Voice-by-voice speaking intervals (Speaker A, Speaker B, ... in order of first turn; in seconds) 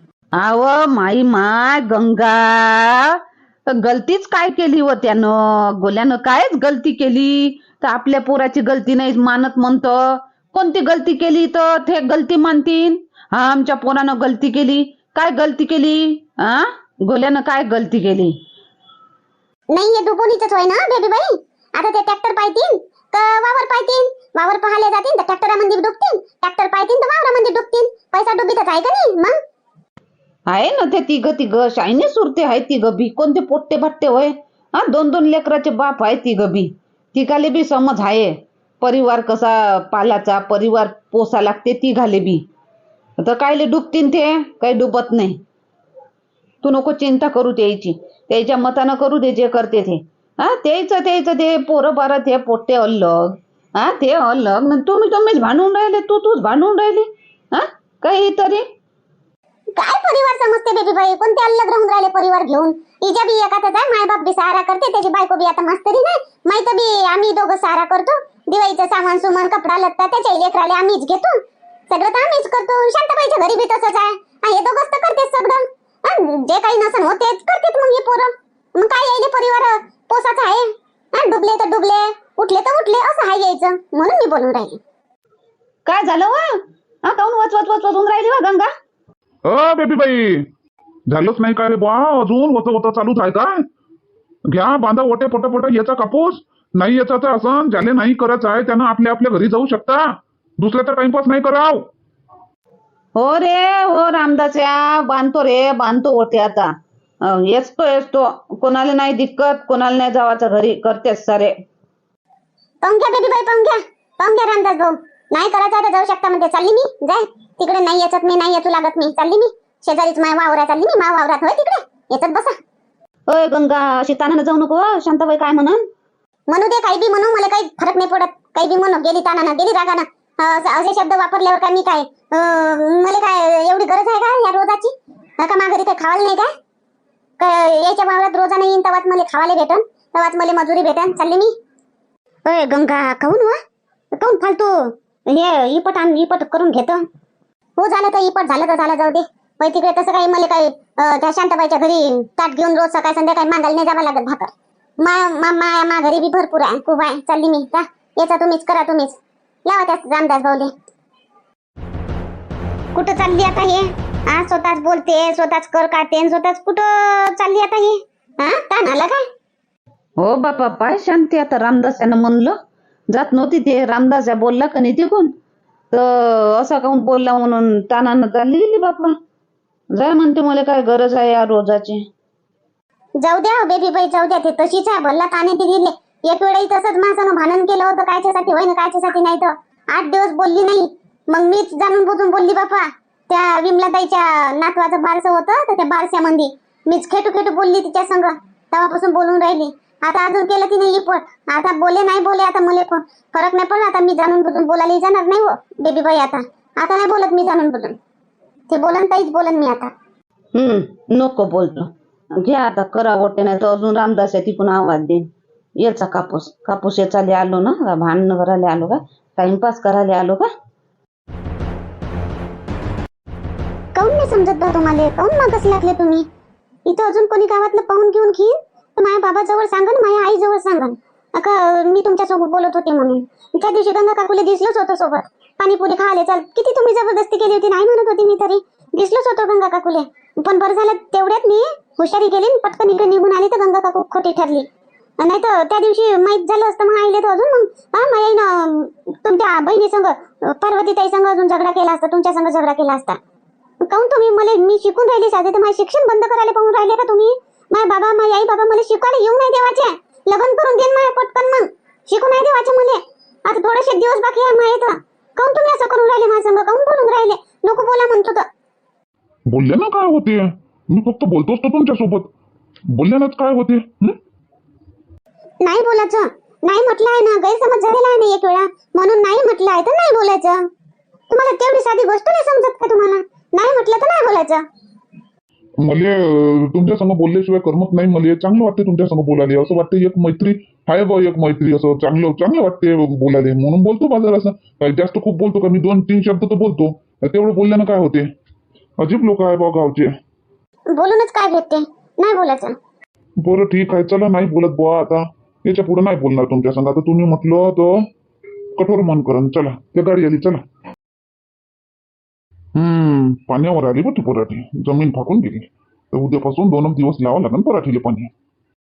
Speaker A: 0.4-3.2, 3.7-10.0, 10.5-18.3, 30.5-42.4, 43.2-45.4, 46.6-58.6, 85.9-88.7, 103.2-106.7, 107.2-111.5, 123.3-125.8, 170.2-172.6, 173.1-175.3, 175.9-179.2, 179.9-182.0, 210.6-215.3, 215.8-220.5
Speaker B: 19.7-29.4, 59.8-84.8, 112.8-122.6, 126.5-136.5, 137.4-141.5, 142.5-143.6, 144.1-147.0, 147.8-160.7, 162.9-169.2, 183.2-208.0, 208.7-209.9, 223.9-226.3, 226.9-244.7, 245.2-253.2, 253.8-268.5, 275.6-280.6, 281.3-284.6, 300.9-302.8
Speaker C: 89.5-90.5, 91.1-93.5, 94.5-100.1, 100.6-101.9, 269.5-272.3, 272.9-274.1, 285.8-298.3, 299.0-300.1, 303.4-307.9, 308.8-310.6, 312.8-318.3